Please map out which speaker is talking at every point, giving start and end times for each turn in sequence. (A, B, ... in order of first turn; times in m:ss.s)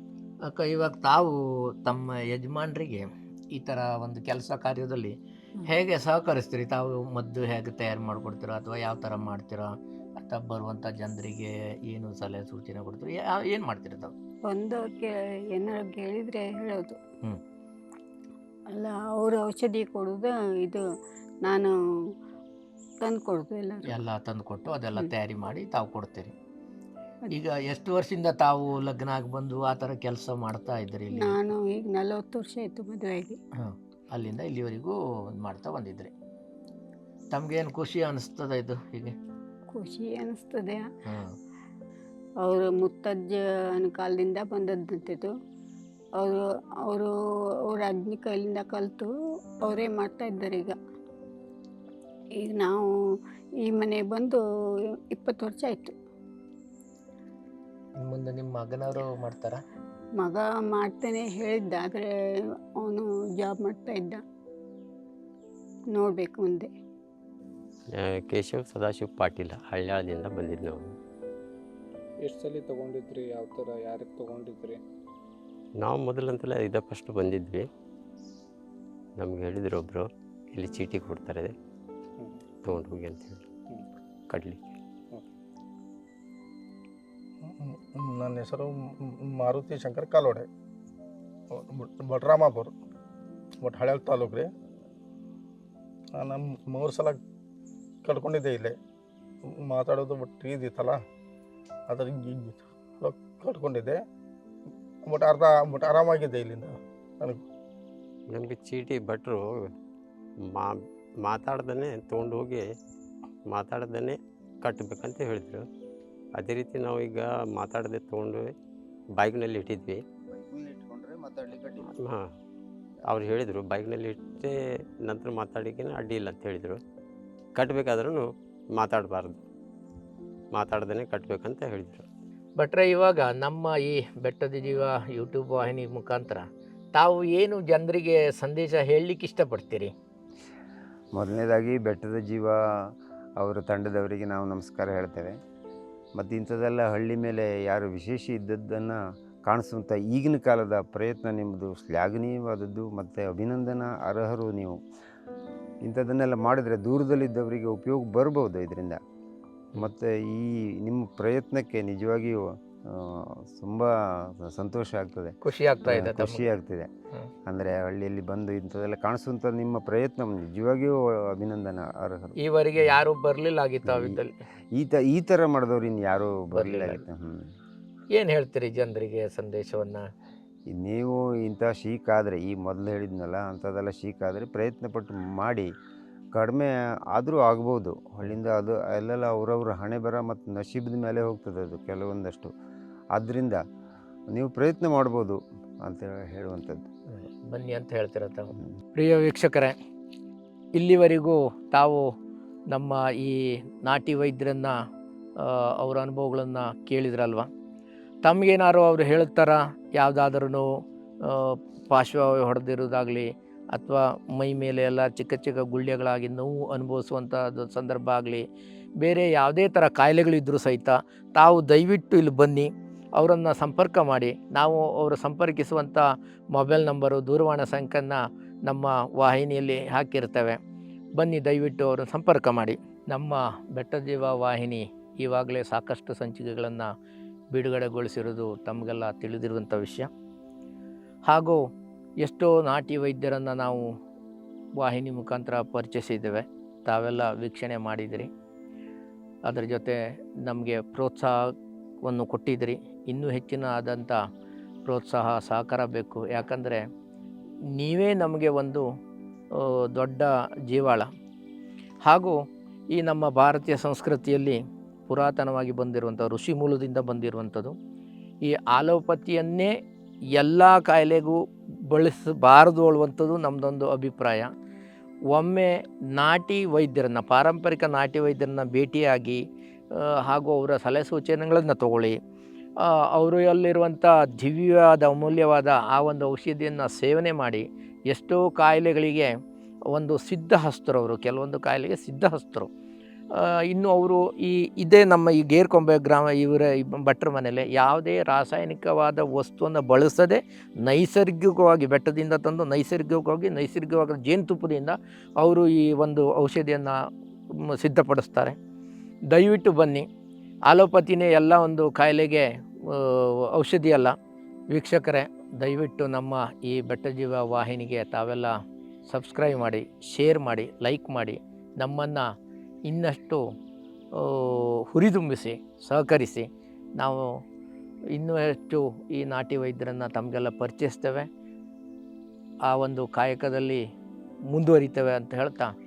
0:00.4-0:09.7 A
0:10.2-0:14.1 A
0:14.5-0:17.0 B
0:18.7-0:20.8 B
0:21.4-0:21.7 B
0:23.0-0:23.8 B
0:23.9-0:26.3 A
0:27.3-0:31.4 A
0:31.2-0:33.3 B
0:33.6-0:36.1 A
0:37.3-0:39.2 A
0:39.7-0:40.8 B
0:41.0-0:41.3 A
0:42.4-0:45.3 B
0:46.2-0:47.1 B
0:47.7-0:49.1 B
0:49.6-0:50.7 B
0:52.4-0:52.8 B
0:53.6-0:54.4 B
0:55.1-0:55.9 B
0:58.0-0:59.6 A
1:00.2-1:02.1 B
1:02.8-1:04.2 B
1:05.9-1:06.7 B
1:07.9-1:10.9 C
1:12.2-1:14.8 D
1:15.8-1:17.7 C
1:19.2-1:21.5 C
1:22.6-1:23.4 C
1:24.3-1:24.7 C
1:27.6-1:28.7 E
1:29.3-1:30.4 E
1:31.5-1:32.7 E
1:33.6-1:34.5 E
1:36.2-1:37.2 E
1:38.0-1:38.7 E
1:39.7-1:41.0 E
1:41.9-1:44.0 E
1:45.1-1:47.4 E
1:48.3-1:49.7 C
1:50.4-1:52.6 C
1:53.5-1:55.6 C
1:56.4-1:58.5 C
1:59.2-2:00.0 C
2:00.3-2:02.1 F
2:02.0-2:02.3 C
2:03.1-2:06.8 C
2:07.6-2:09.4 C
2:10.5-2:12.0 C
2:12.6-2:19.9 A
2:21.2-2:25.4 F
2:26.2-2:34.8 F
2:35.8-2:39.0 F
2:39.7-2:46.9 F
2:45.4-2:46.5 A
2:47.4-2:53.0 F
2:52.4-2:54.3 A
2:53.8-2:54.2 F
2:54.7-2:57.5 F
2:56.5-2:57.0 A
2:58.1-3:00.1 A
3:00.7-3:05.7 F
3:06.4-3:12.5 F
3:13.1-3:13.6 F
3:14.3-3:16.8 F
3:17.1-3:19.8 A
3:20.8-3:22.1 A
3:22.7-3:24.7 A
3:25.4-3:27.5 A
3:28.2-3:30.6 A
3:31.2-3:38.4 A
3:39.0-3:50.6 A
3:51.2-3:56.9 A
3:57.5-4:00.1 A
4:01.3-4:01.6 A
4:02.2-4:03.8 A
4:04.8-4:08.3 A
4:09.5-4:11.4 A
4:12.0-4:14.2 A
4:14.9-4:16.8 A
4:17.8-4:18.8 A
4:19.6-4:21.1 A
4:22.0-4:22.4 A
4:22.9-4:27.7 A
4:28.4-4:29.7 A
4:30.3-4:31.4 A
4:31.9-4:34.5 A
4:35.3-4:39.4 A
4:39.9-4:42.2 A
4:43.2-4:49.3 A
4:49.9-4:52.7 A
4:53.3-5:07.0 A
5:07.8-5:08.6 A
5:09.3-5:10.0 A
5:10.7-5:14.1 A
5:14.7-5:18.5 A
5:19.1-5:22.2 A
5:22.8-5:23.4 A
5:24.2-5:27.4 A
5:28.1-5:31.3 A
5:32.7-5:33.8 A
5:34.5-5:35.7 A